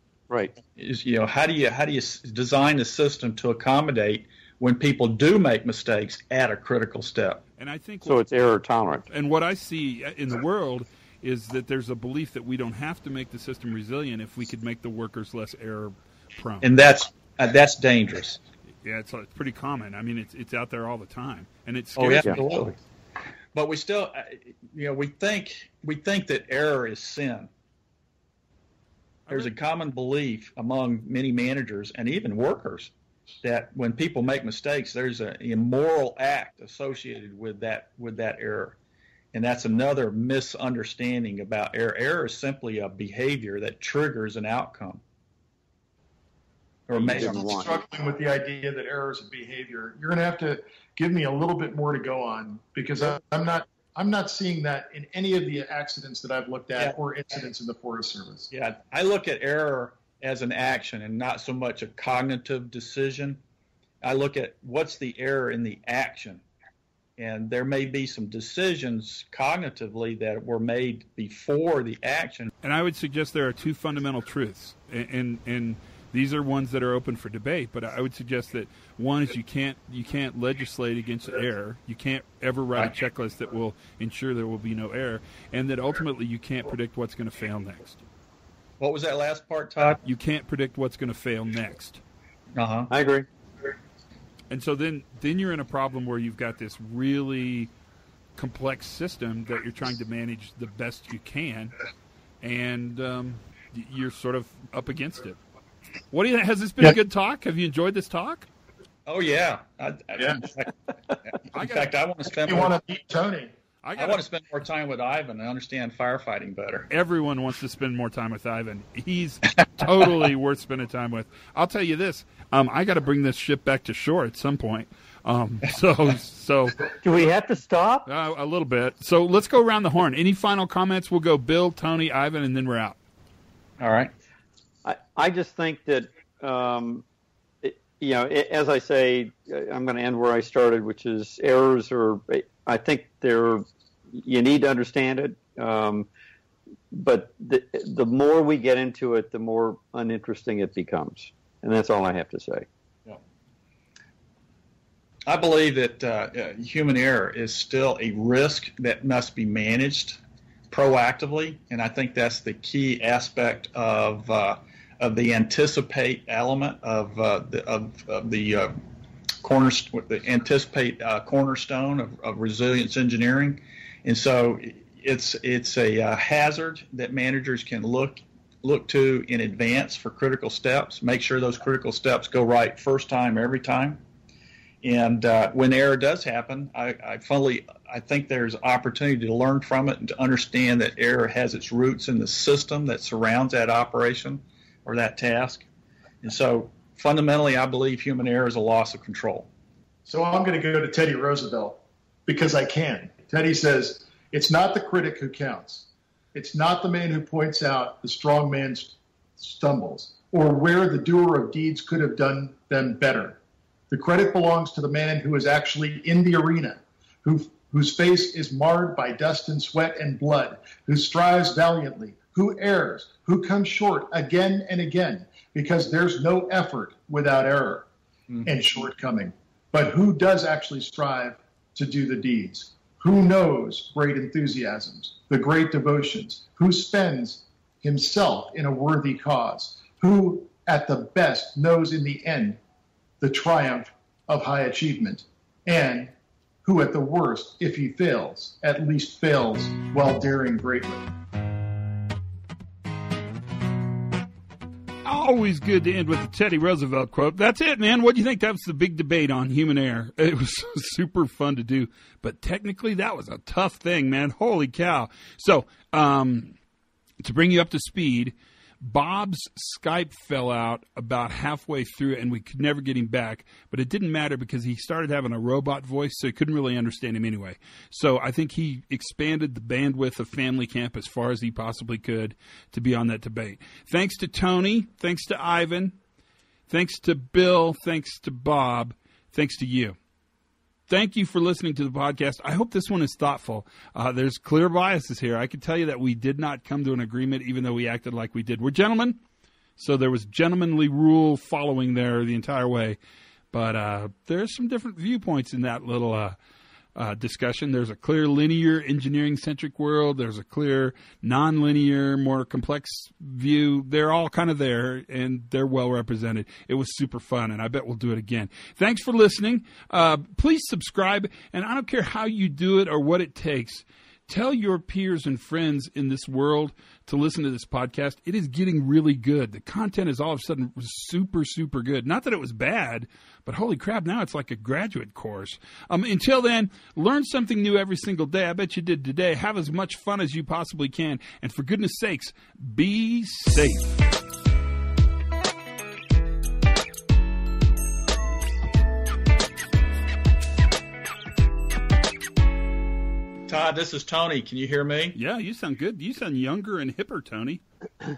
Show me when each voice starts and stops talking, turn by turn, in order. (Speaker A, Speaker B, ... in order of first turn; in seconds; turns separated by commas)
Speaker A: 0.3-0.5, Speaker B: 0.8-7.4, Speaker C: 7.6-8.2, Speaker A: 8.0-9.1, Speaker C: 9.1-16.7, Speaker B: 16.6-18.4, Speaker C: 18.8-22.7, Speaker B: 22.0-22.7, Speaker B: 23.5-27.5, Speaker C: 29.3-29.5, Speaker B: 29.3-32.9, Speaker B: 33.4-38.8, Speaker B: 39.3-45.0, Speaker B: 46.9-47.4, Speaker A: 47.0-47.8, Speaker D: 47.0-58.5, Speaker B: 58.5-63.4, Speaker B: 64.0-66.4, Speaker B: 67.2-72.5, Speaker C: 72.6-88.1, Speaker B: 88.8-90.0, Speaker C: 90.0-92.0, Speaker B: 92.5-92.9, Speaker A: 92.9-93.2, Speaker C: 94.5-97.7, Speaker C: 98.3-101.7, Speaker C: 102.4-105.4, Speaker C: 106.1-108.5, Speaker B: 109.0-110.7, Speaker B: 111.3-112.8, Speaker C: 111.5-111.8, Speaker D: 112.4-113.5, Speaker C: 113.8-114.2, Speaker B: 114.0-116.9, Speaker C: 116.9-126.9, Speaker A: 127.0-128.1, Speaker C: 128.1-133.0, Speaker B: 133.8-134.1, Speaker A: 134.8-137.0, Speaker A: 137.6-146.1, Speaker A: 146.9-152.7, Speaker B: 155.2-168.7, Speaker B: 169.4-184.0, Speaker B: 184.8-195.7, Speaker B: 196.2-199.5, Speaker D: 200.1-213.4, Speaker D: 213.9-227.9, Speaker D: 228.4-242.6, Speaker D: 243.2-246.1, Speaker D: 246.6-251.1, Speaker C: 255.0-266.5, Speaker C: 267.2-285.9, Speaker C: 286.7-290.0, Speaker C: 290.9-299.2, Speaker C: 299.8-303.0, Speaker C: 303.5-306.4, Speaker C: 306.9-344.1, Speaker B: 353.5-355.2, Speaker C: 355.1-357.6